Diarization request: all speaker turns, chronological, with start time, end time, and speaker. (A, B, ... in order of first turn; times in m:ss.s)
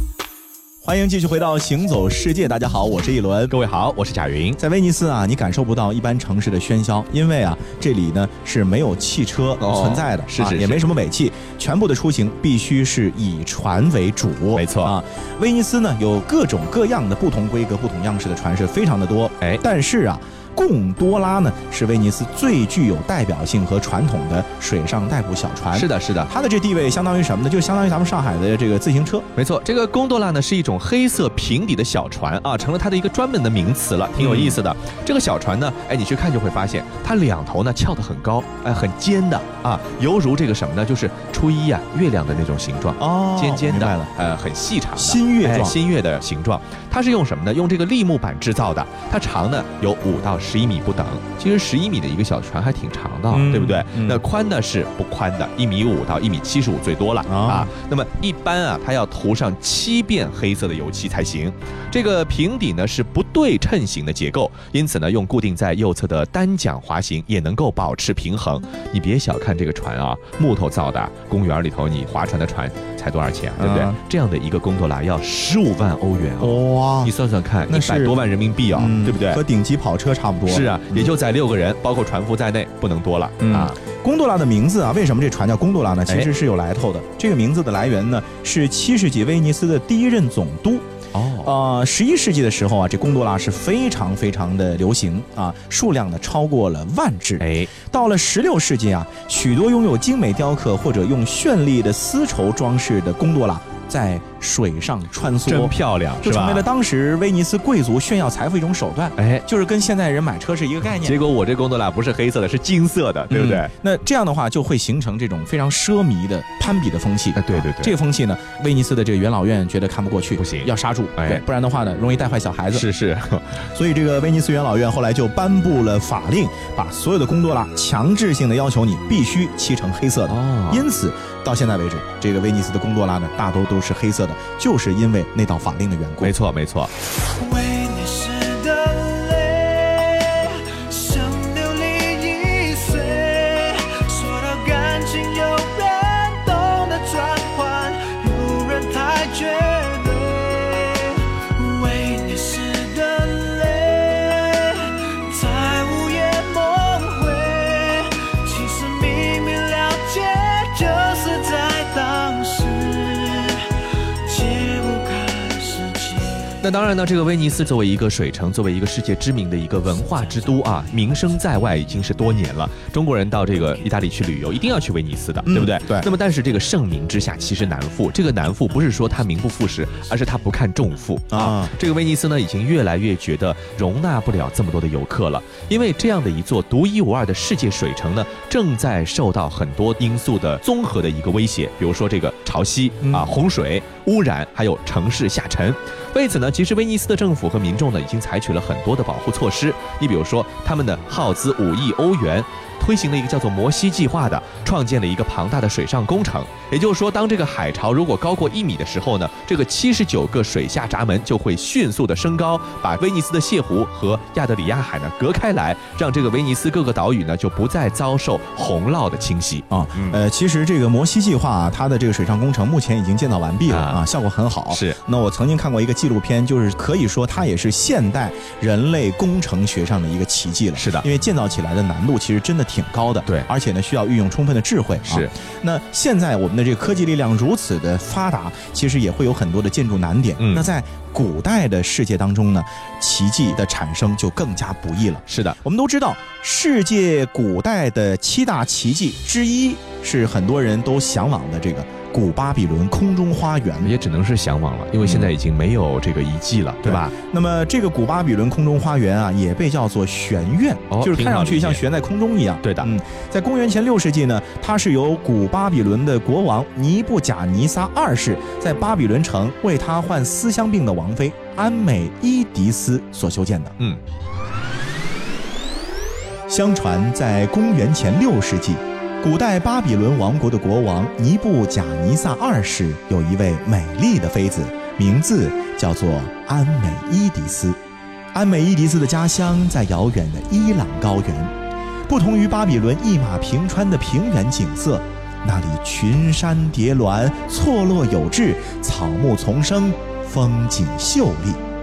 0:00.8-0:03.6 A
0:03.5-0:04.6 B
0:04.6-0:29.3 A
0:09.6-0:10.9 B
0:14.5-0:15.0 B
0:25.7-0:26.3 B
0:29.4-1:19.4 B
0:34.2-0:34.6 A
0:43.0-0:44.1 A
0:45.0-0:45.7 A
0:53.3-0:54.2 A
0:57.3-0:57.7 A
1:13.6-1:14.0 A
1:16.4-1:17.1 A
1:17.7-1:18.2 A
1:18.7-1:21.1 A
1:20.5-1:23.8 B
1:23.4-1:30.9 A
1:31.1-1:31.5 B
1:31.4-1:51.2 A
1:37.4-1:37.7 B
1:45.4-1:46.7 B
1:49.2-1:49.4 B
1:51.0-1:53.7 B
1:53.3-2:02.8 A
1:57.3-1:58.0 B
2:00.4-2:01.4 B
2:02.7-2:03.6 B
2:03.7-2:16.3 A
2:10.3-2:10.8 B
2:16.2-2:16.9 B
2:17.4-2:43.6 C
2:44.2-2:46.4 C
2:46.6-3:40.2 B
2:55.4-2:56.1 A
3:01.3-3:01.7 A
3:13.0-3:13.3 A
3:39.7-4:13.9 A
3:43.7-3:44.0 B
3:44.7-3:45.0 B
3:50.8-3:51.1 B
3:55.1-3:55.3 B
4:00.4-4:00.7 B
4:05.3-4:05.6 B
4:13.8-4:17.1 B
4:15.0-4:15.3 A
4:16.8-4:33.8 A
4:20.9-4:21.8 B
4:22.6-4:22.9 B
4:36.5-4:47.8 A
4:48.3-4:51.5 A
4:52.1-5:01.6 A